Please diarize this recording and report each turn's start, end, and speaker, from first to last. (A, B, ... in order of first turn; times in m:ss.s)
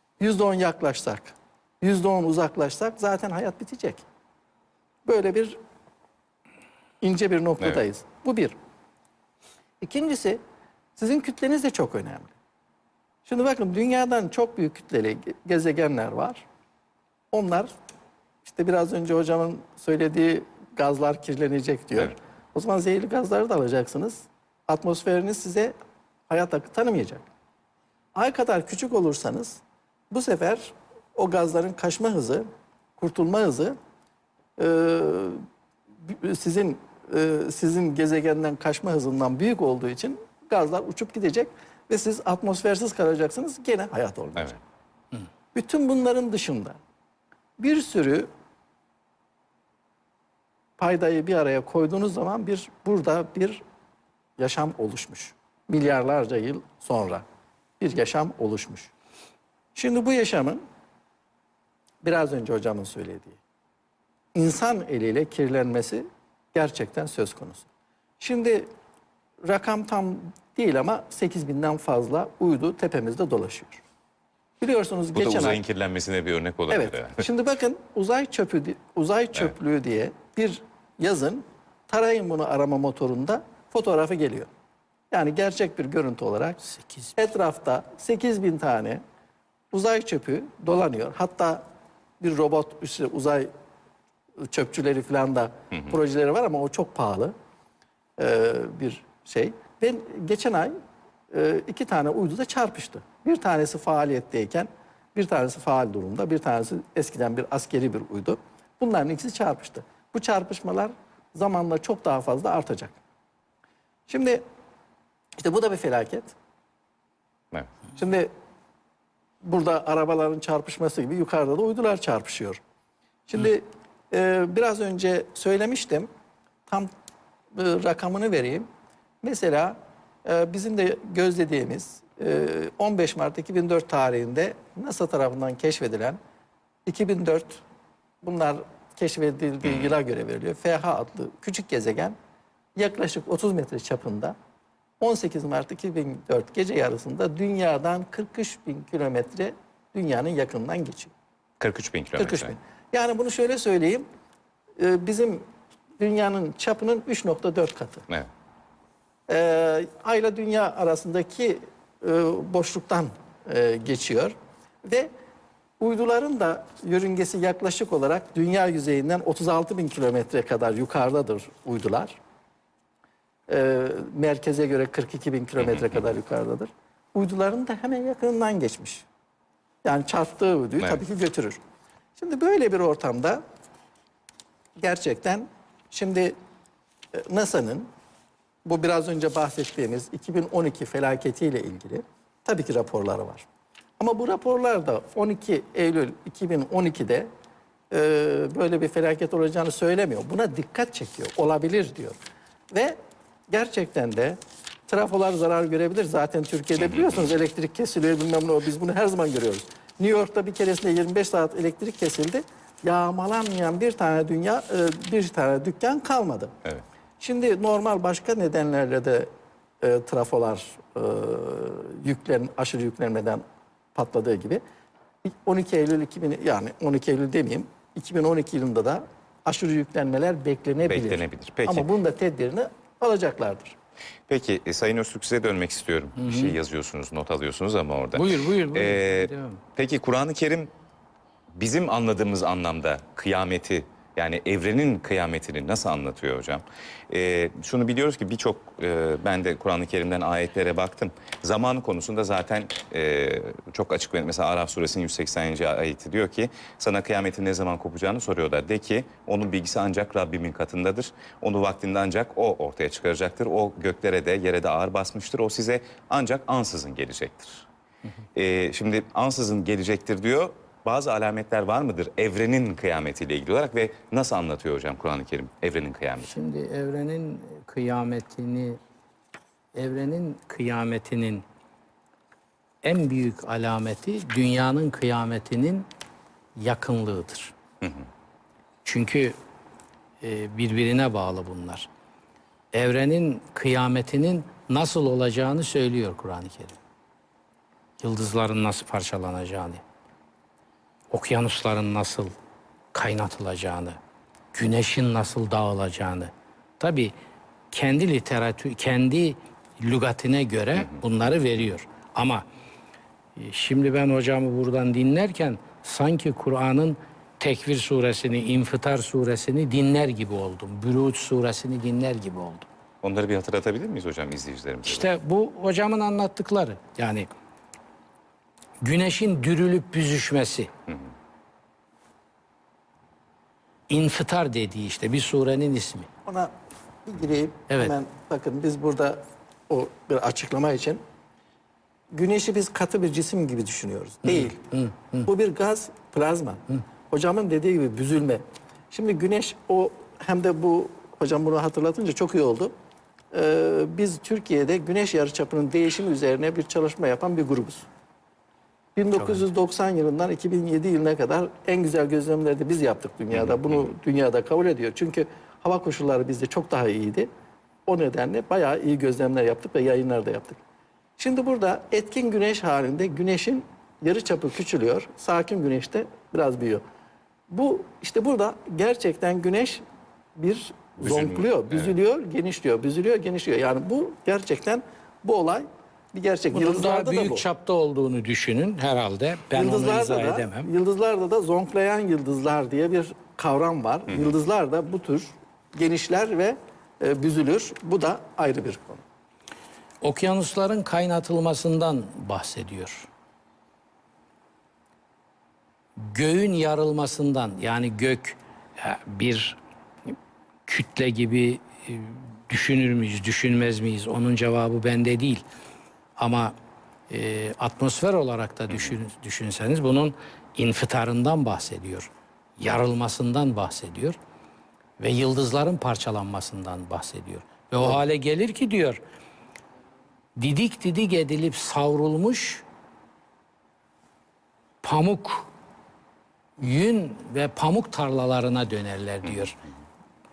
0:00.2-0:04.0 A
0:05.0-0:05.6 A
0:07.0-0:08.6 A
0:09.8-0:10.4 A
0:11.0-0:12.3 A
0:13.2-0:16.4 A
0:17.3-0:17.7 A
0:18.4-0:25.8 A
0:26.3-0:27.2 A
0:28.1-0:33.8 A
0:34.6-0:35.4 A
0:36.0-0:44.5 A
0:45.5-0:46.8 A
0:47.6-0:48.3 A
0:50.8-0:53.6 A
0:54.4-0:57.2 A
0:57.8-0:58.9 A
0:59.7-1:00.6 A
1:02.0-1:03.4 A
1:04.3-1:07.7 A
1:08.2-1:08.7 A
1:09.4-1:13.8 A
1:14.6-1:15.6 A
1:15.1-1:17.2 B
1:16.7-1:24.5 A
1:25.1-1:26.6 A
1:26.7-1:27.1 C
1:27.2-1:29.0 A
1:29.7-1:31.6 A
1:32.2-1:33.5 A
1:34.4-1:37.3 A
1:38.2-1:40.8 A
1:41.3-1:53.0 A
1:54.1-1:54.4 A
1:55.4-1:56.3 A
1:58.0-1:58.3 A
1:59.4-2:02.6 A
2:03.3-2:06.1 A
2:06.7-2:06.9 A
2:07.5-2:08.7 A
2:09.2-2:16.2 A
2:16.8-2:17.6 A
2:18.2-2:22.2 A
2:22.8-2:24.4 A
2:25.0-2:31.1 A
2:31.6-2:32.5 B
2:32.2-2:34.1 A
2:34.8-2:35.4 A
2:36.0-2:38.0 A
2:39.3-2:45.1 A
2:45.8-2:52.2 A
2:53.5-2:59.0 A
2:59.8-3:01.6 A
3:02.2-3:03.4 A
3:04.8-3:06.4 A
3:07.1-3:07.9 A
3:08.6-3:13.4 A
3:14.0-3:17.3 A
3:17.9-3:22.2 A
3:22.7-3:36.5 A
3:26.8-3:27.2 B
3:37.2-3:43.4 A
3:43.9-3:44.6 A
3:45.2-3:53.8 A
3:50.8-3:51.9 B
3:54.3-4:00.7 B
3:56.2-3:56.5 C
3:58.1-3:59.6 C
4:01.5-4:27.7 B
4:28.3-4:36.3 B
4:36.2-4:38.8 C
4:39.7-4:41.4 C
4:42.8-4:45.9 C
4:46.6-4:47.5 C
4:48.8-4:49.4 C
4:50.2-4:51.9 C
4:52.7-4:56.8 C
4:58.0-4:59.8 C
5:01.1-5:02.3 C
5:02.9-5:04.0 C
5:04.5-5:07.1 C
5:07.7-5:12.4 C
5:13.4-5:22.7 C
5:23.0-5:25.1 B
5:24.8-5:27.3 C
5:28.8-5:30.7 C
5:33.9-5:36.1 C
5:36.2-5:36.5 A
5:37.0-5:41.0 A
5:37.7-5:37.9 C
5:42.1-5:44.6 A
5:44.2-5:45.3 C
5:45.2-5:52.7 A
5:53.3-5:57.9 A
5:59.0-6:07.3 A
5:59.2-5:59.4 C
6:03.3-6:03.8 B
6:07.9-6:10.6 A
6:11.2-6:16.8 A
6:17.5-6:19.8 A
6:20.4-6:27.4 A
6:21.0-6:21.9 B
6:26.5-6:30.7 C
6:29.5-6:39.0 A
6:40.0-6:43.1 C
6:46.0-6:49.6 C
6:50.7-6:55.4 C
6:56.2-6:56.5 C
6:57.1-7:04.2 C
7:05.0-7:09.0 C
7:10.4-7:12.6 C
7:14.8-7:15.5 C
7:16.6-7:19.5 C